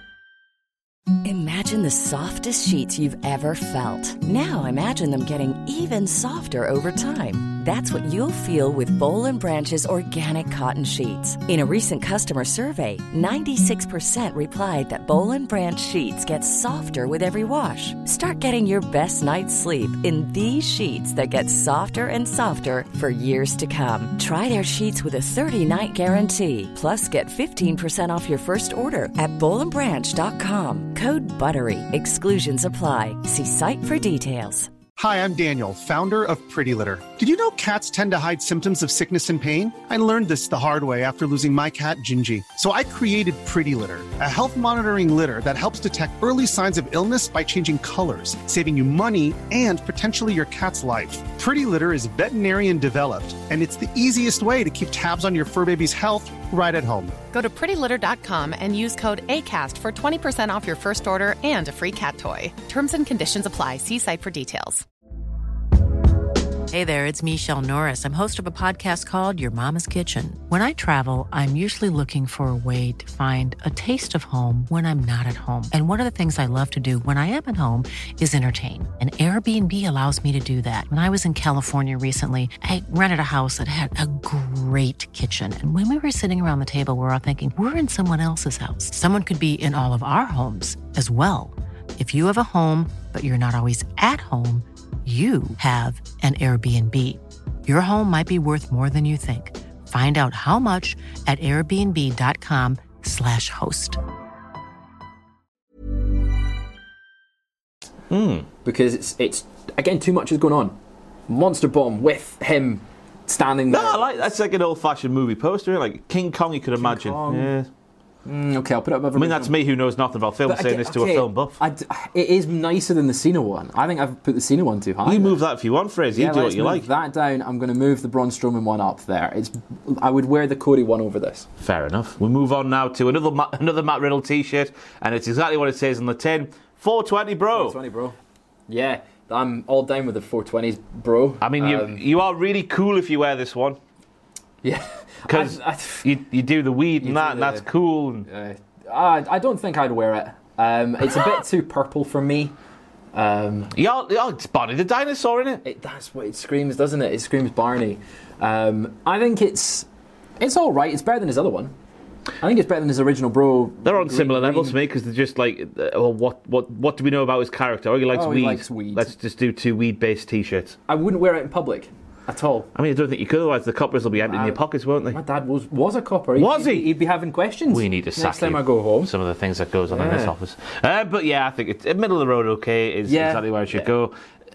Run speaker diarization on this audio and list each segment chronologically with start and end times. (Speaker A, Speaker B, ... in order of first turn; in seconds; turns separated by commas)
Speaker A: 1.2-34.7, Speaker B: 35.0-57.2, Speaker C: 57.3-64.8, Speaker D: 66.7-104.0, Speaker E: 108.1-108.5, Speaker F: 108.6-110.8, Speaker F: 111.3-114.3, Speaker E: 113.7-117.7, Speaker F: 116.8-117.5, Speaker F: 118.2-119.5, Speaker E: 119.2-121.6, Speaker F: 120.5-125.4, Speaker E: 125.0-126.9, Speaker F: 126.1-131.5, Speaker E: 131.6-137.8, Speaker F: 137.5-138.2, Speaker F: 138.7-142.0, Speaker E: 141.4-143.8, Speaker F: 144.6-146.1, Speaker E: 145.3-148.3, Speaker F: 147.0-147.6, Speaker F: 148.3-152.5, Speaker F: 153.1-153.7, Speaker E: 153.7-155.6, Speaker F: 155.6-159.9, Speaker F: 160.4-161.7, Speaker F: 162.4-164.8, Speaker E: 163.8-170.8, Speaker F: 168.1-169.1, Speaker F: 170.9-172.7, Speaker E: 172.7-175.2, Speaker F: 174.2-174.6, Speaker F: 175.1-179.1, Speaker E: 176.4-176.9, Speaker E: 177.7-184.1, Speaker F: 179.9-180.3, Speaker F: 183.1-183.9